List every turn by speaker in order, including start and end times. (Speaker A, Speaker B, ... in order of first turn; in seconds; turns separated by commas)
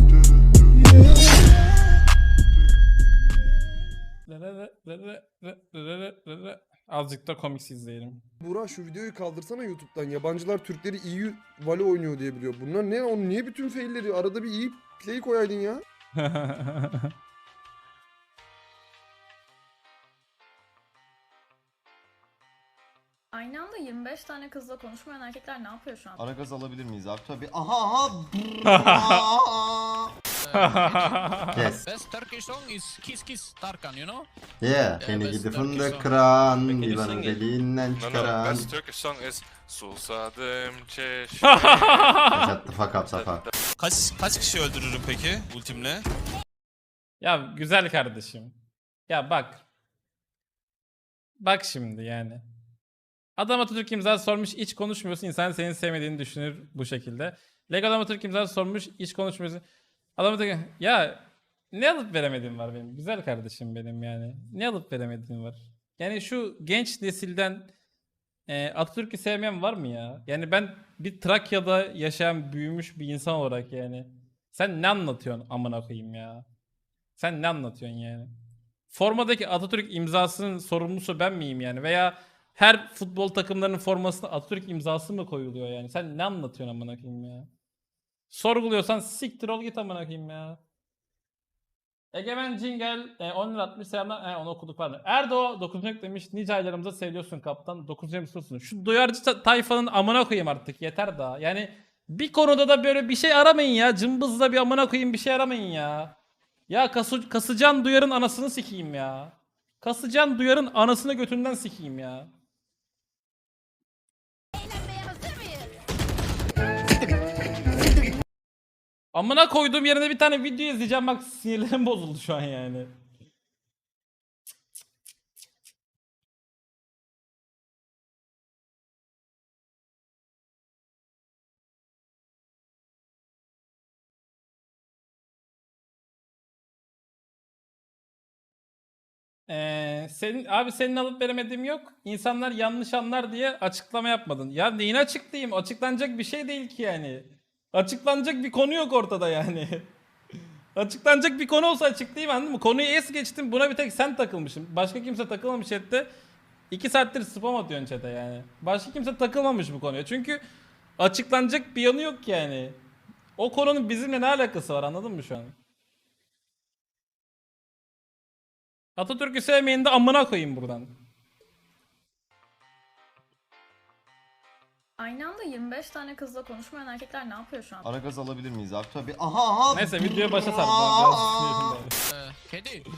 Speaker A: 4.3-8.2, Speaker B: 8.4-15.8, Speaker A: 16.2-17.1, Speaker C: 23.3-26.2, Speaker D: 26.2-30.1, Speaker A: 28.7-29.2, Speaker E: 30.5-31.3, Speaker A: 30.6-31.7, Speaker D: 31.5-31.9, Speaker E: 31.8-34.3, Speaker D: 34.6-38.7, Speaker E: 35.0-36.1, Speaker E: 36.7-37.2, Speaker F: 38.6-41.2, Speaker A: 41.4-42.5, Speaker D: 42.3-43.4, Speaker G: 43.8-46.0, Speaker A: 47.2-48.5, Speaker A: 49.1-49.6, Speaker A: 51.4-52.4, Speaker A: 53.4-59.6, Speaker A: 60.2-67.7, Speaker A: 68.5-76.5, Speaker A: 77.2-78.3, Speaker A: 78.9-87.5, Speaker A: 88.3-90.6, Speaker A: 92.1-106.1, Speaker A: 106.7-112.3, Speaker F: 114.5-115.7, Speaker A: 119.1-122.9, Speaker A: 139.5-149.9, Speaker A: 150.7-156.1, Speaker A: 156.7-160.4, Speaker A: 161.0-162.8, Speaker A: 163.4-165.6, Speaker A: 168.9-170.9, Speaker C: 175.0-177.9, Speaker D: 177.8-181.8, Speaker A: 179.7-181.9, Speaker E: 182.1-182.8